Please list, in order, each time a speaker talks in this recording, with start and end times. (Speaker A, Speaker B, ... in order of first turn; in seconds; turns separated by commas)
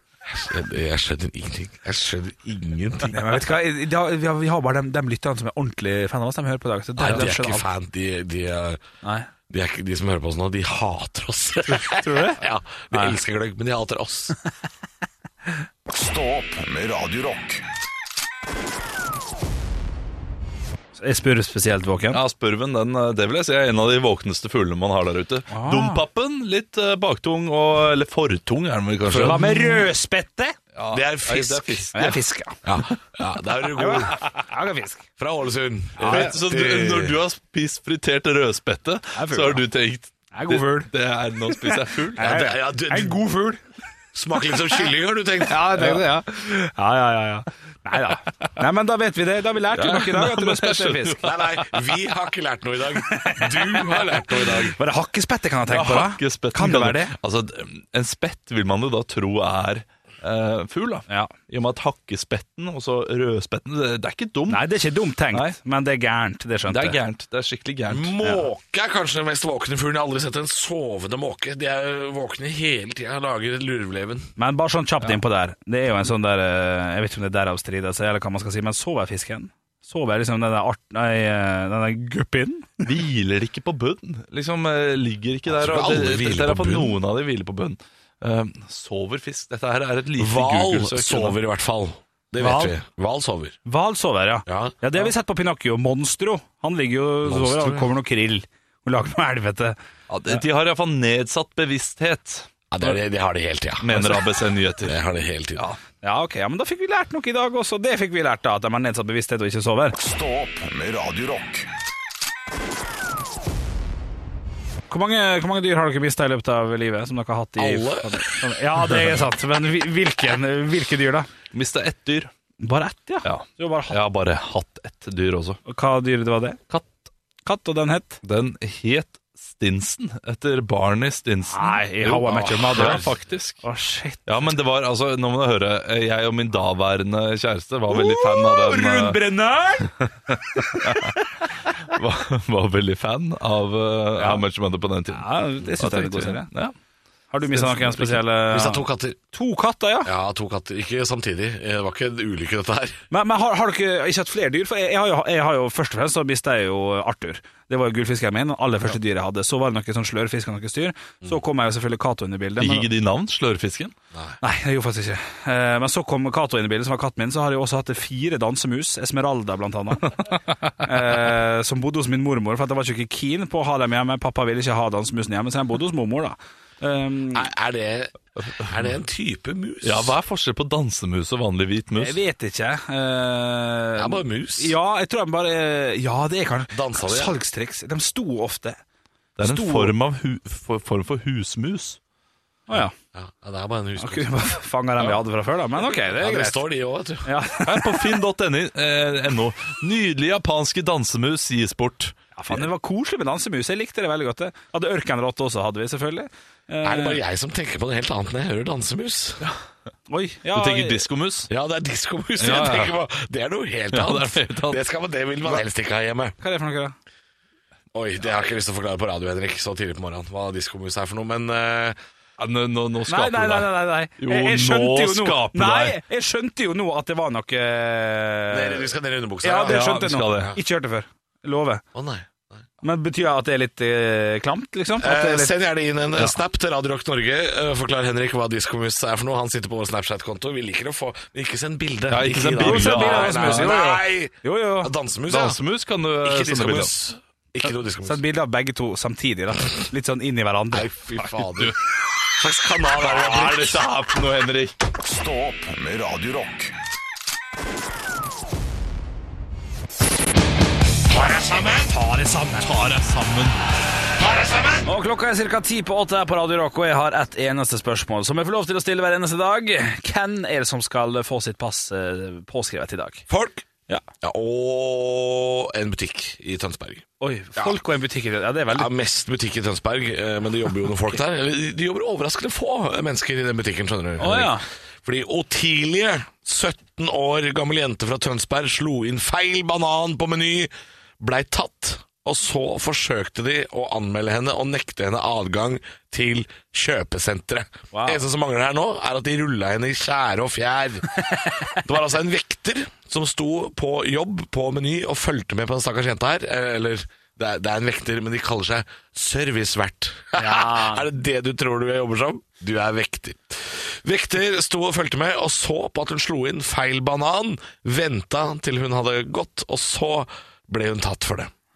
Speaker A: 0.2-3.4, Speaker B: 3.1-7.7, Speaker A: 7.0-8.8, Speaker B: 9.0-9.3, Speaker A: 9.5-14.4, Speaker B: 11.7-13.2, Speaker C: 15.9-17.6, Speaker B: 21.0-22.2, Speaker D: 22.1-29.9, Speaker B: 25.5-26.0, Speaker B: 29.1-30.6, Speaker A: 29.1-29.4, Speaker D: 30.7-32.2, Speaker A: 30.9-31.9, Speaker B: 31.9-32.6, Speaker A: 32.6-34.2, Speaker B: 33.8-35.0, Speaker A: 35.2-37.2, Speaker B: 36.0-36.4, Speaker D: 36.0-42.3, Speaker B: 39.1-39.6, Speaker B: 40.3-40.9, Speaker B: 41.5-43.6, Speaker A: 42.2-43.2, Speaker A: 44.1-46.0, Speaker B: 45.5-51.2, Speaker D: 49.7-51.7, Speaker A: 51.2-54.8, Speaker B: 53.1-54.0, Speaker B: 54.8-57.1, Speaker D: 55.7-64.7, Speaker B: 61.1-61.3, Speaker B: 64.5-67.0, Speaker D: 66.7-68.2, Speaker A: 67.9-74.3, Speaker B: 74.4-82.9, Speaker D: 82.8-91.4, Speaker A: 85.5-87.0, Speaker A: 90.2-93.6, Speaker B: 92.4-92.8, Speaker B: 93.7-99.8, Speaker A: 94.5-94.8, Speaker A: 97.2-97.9, Speaker D: 100.1-102.5, Speaker A: 102.7-104.2, Speaker D: 103.8-105.0, Speaker A: 104.8-105.7, Speaker B: 106.0-110.0, Speaker C: 110.0-111.7, Speaker B: 114.9-121.3, Speaker A: 117.6-118.3, Speaker D: 121.5-122.3, Speaker B: 122.6-124.0, Speaker D: 123.2-125.6, Speaker B: 125.7-126.6, Speaker D: 126.7-127.0, Speaker B: 127.5-128.2, Speaker D: 128.2-133.6, Speaker B: 131.5-133.1, Speaker A: 132.8-133.1, Speaker B: 133.6-134.3, Speaker D: 134.3-139.2, Speaker B: 137.9-141.3, Speaker D: 140.0-141.2, Speaker D: 141.8-146.8, Speaker B: 144.2-144.4, Speaker B: 145.1-146.5, Speaker B: 147.3-150.1, Speaker D: 147.5-148.2, Speaker A: 148.5-149.2, Speaker A: 150.1-153.0, Speaker B: 153.1-162.9, Speaker D: 162.6-163.9, Speaker B: 164.4-177.5, Speaker A: 177.3-180.2, Speaker D: 179.8-182.2, Speaker B: 181.9-188.8, Speaker A: 184.0-184.7, Speaker A: 186.7-187.3, Speaker D: 189.4-192.0, Speaker B: 189.4-189.9, Speaker B: 192.7-192.9, Speaker A: 193.1-194.3, Speaker B: 194.0-196.6, Speaker A: 195.9-197.3, Speaker B: 197.2-198.1, Speaker D: 197.7-202.6, Speaker B: 202.3-207.2, Speaker A: 206.8-209.5, Speaker B: 210.1-211.1, Speaker D: 210.5-211.5, Speaker A: 211.5-216.4, Speaker D: 212.4-213.0, Speaker D: 213.9-214.8, Speaker B: 216.4-216.9, Speaker A: 217.9-222.0, Speaker D: 222.4-226.0, Speaker B: 223.1-231.8, Speaker A: 228.5-230.6, Speaker D: 229.7-230.5, Speaker A: 231.9-232.7, Speaker B: 232.8-235.5, Speaker A: 235.0-245.6, Speaker D: 242.1-243.7, Speaker B: 242.6-244.9, Speaker D: 245.3-246.9, Speaker A: 246.2-248.2, Speaker B: 248.0-250.9, Speaker A: 250.7-251.8, Speaker A: 252.4-253.8, Speaker D: 253.0-254.8, Speaker C: 254.9-256.8, Speaker A: 261.1-261.9, Speaker B: 261.9-262.7, Speaker D: 262.6-263.6, Speaker A: 264.2-264.9, Speaker B: 264.9-273.3, Speaker A: 273.3-273.6, Speaker A: 274.2-277.8, Speaker B: 277.2-278.9, Speaker A: 278.7-321.5, Speaker B: 284.2-284.7, Speaker B: 297.9-298.2, Speaker B: 301.4-301.8, Speaker B: 310.4-311.1